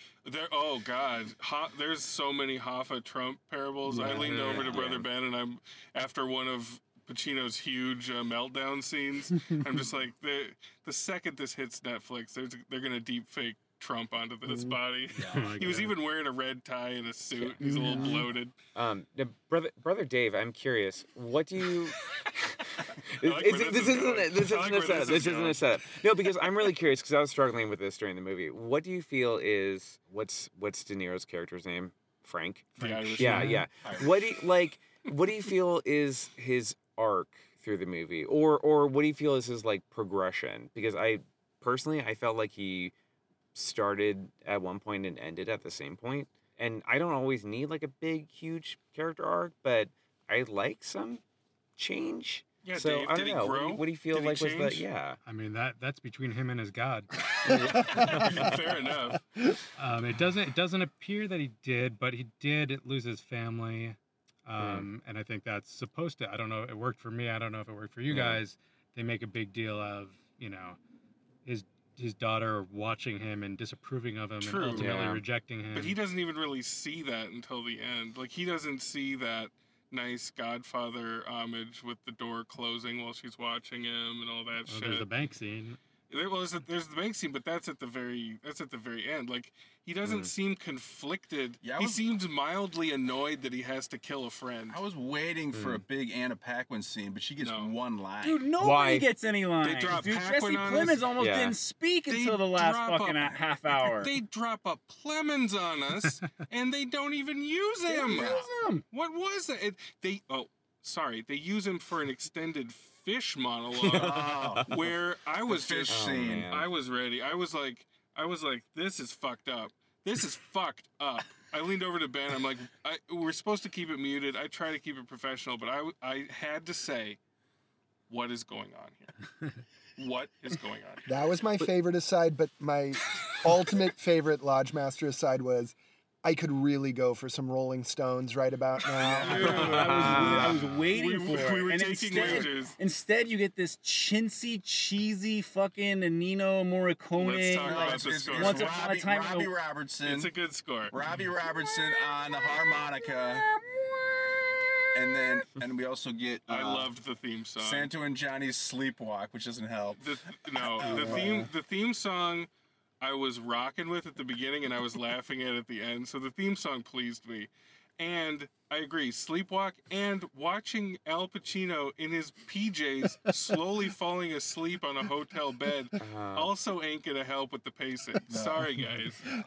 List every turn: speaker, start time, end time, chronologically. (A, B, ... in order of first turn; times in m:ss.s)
0:00.2-0:18.5 A
0:04.0-0:05.1 B
0:15.1-0:15.7 C
0:15.2-0:15.9 D
0:17.3-0:18.2 B
0:17.6-0:18.3 E
0:18.8-0:42.9 B
0:23.2-0:26.4 A
0:32.8-0:33.6 A
0:32.8-0:33.7 D
0:33.8-0:34.4 C
0:43.6-0:51.2 B
0:51.8-0:55.2 B
0:52.6-0:54.9 A
0:55.2-0:58.6 D
0:57.4-0:58.6 B
0:57.9-0:59.2 A
0:59.8-1:10.8 D
1:04.6-1:04.9 B
1:08.1-1:08.4 B
1:11.4-1:16.0 D
1:14.4-1:15.0 A
1:14.6-1:15.2 B
1:15.7-1:25.1 A
1:24.7-1:25.8 D
1:26.1-1:34.8 A
1:30.0-1:30.3 B
1:31.6-1:32.0 C
1:34.7-1:38.5 C
1:35.5-1:35.8 B
1:37.4-1:37.8 A
1:38.2-1:44.1 F
1:38.6-1:39.1 B
1:39.6-1:41.1 A
1:41.2-1:41.6 B
1:42.1-1:43.3 A
1:43.9-1:48.4 A
1:47.9-1:48.8 F
1:48.1-1:48.5 C
1:48.9-2:07.2 A
1:53.8-1:54.7 B
1:53.9-1:54.7 C
1:55.5-1:56.5 C
1:55.9-1:56.7 B
2:08.1-2:09.2 A
2:10.0-2:11.1 A
2:11.1-2:19.7 E
2:19.0-2:19.8 C
2:19.2-2:29.5 F
2:19.2-2:22.8 A
2:19.4-2:20.7 B
2:22.1-2:22.4 C
2:27.1-2:28.9 A
2:27.6-2:30.3 C
2:30.0-2:31.0 A
2:30.9-2:33.5 C
2:34.9-2:36.9 C
2:36.5-2:37.9 A
2:37.6-2:41.5 C
2:40.0-2:42.5 A
2:43.0-2:59.4 A
2:56.0-2:56.5 B
2:58.3-2:58.8 C